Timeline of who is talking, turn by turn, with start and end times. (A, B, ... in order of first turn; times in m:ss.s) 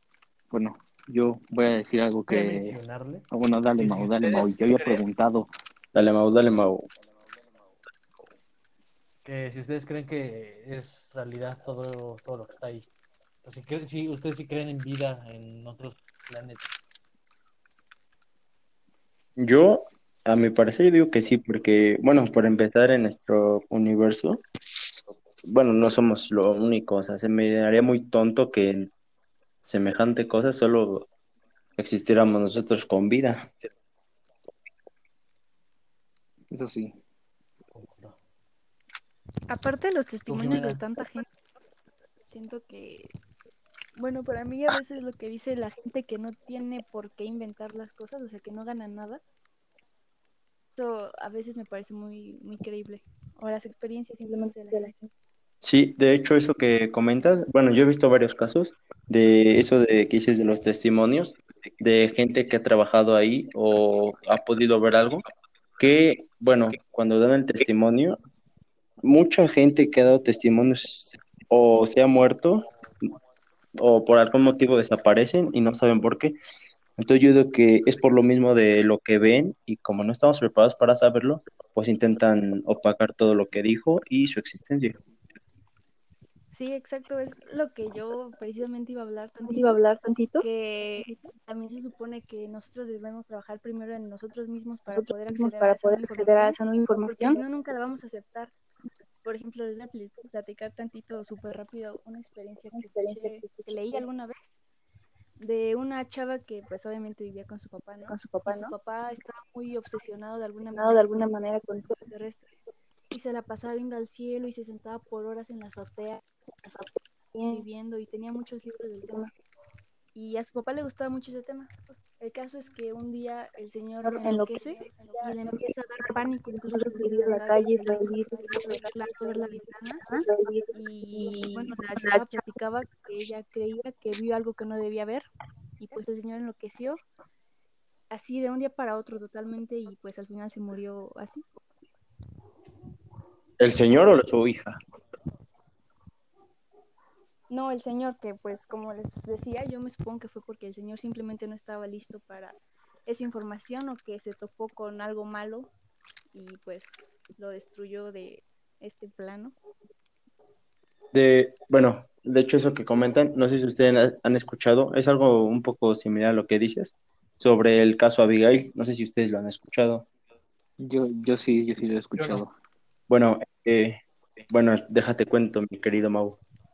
0:00.5-0:02.8 A
0:02.3-0:03.2 B
0:03.3-0:05.5 A
0:03.8-0:05.0 B
0:05.9-0:06.9 C
0:09.2-0:12.9 B
0:13.4-0:16.7 B
0:19.4-0:24.4 C
0:25.4-0:28.9 C
0:29.6-0:31.1 C
0:31.8-0:33.5 C
0:36.5-0:37.0 A
0:37.7-0:38.2 B
0:39.5-0:41.2 D
0:40.3-0:40.8 B
0:42.3-0:43.1 D
0:44.0-0:49.2 D
0:50.8-0:54.9 D
0:55.6-1:05.2 C
1:05.8-1:08.2 C
1:09.0-1:12.6 C
1:13.8-1:16.3 C
1:17.0-1:25.0 C
1:26.5-1:29.8 D
1:29.4-1:30.4 E
1:30.4-1:38.5 D
1:31.0-1:31.3 E
1:34.9-1:37.4 E
1:39.2-1:44.6 D
1:42.7-1:44.0 E
1:45.4-1:51.1 D
1:48.1-1:48.8 E
1:50.7-1:52.0 E
1:52.0-1:52.5 D
1:53.1-1:56.2 D
1:56.6-1:57.6 E
1:57.5-1:59.1 D
2:00.1-2:10.0 D
2:04.0-2:12.5 E
2:10.8-2:15.3 D
2:15.8-2:17.0 D
2:18.1-2:21.4 D
2:23.6-2:24.8 C
2:27.5-2:35.7 D
2:36.3-2:39.5 D
2:41.1-2:50.1 C
2:50.8-2:52.5 A
2:52.2-2:52.4 B
2:53.1-2:56.4 C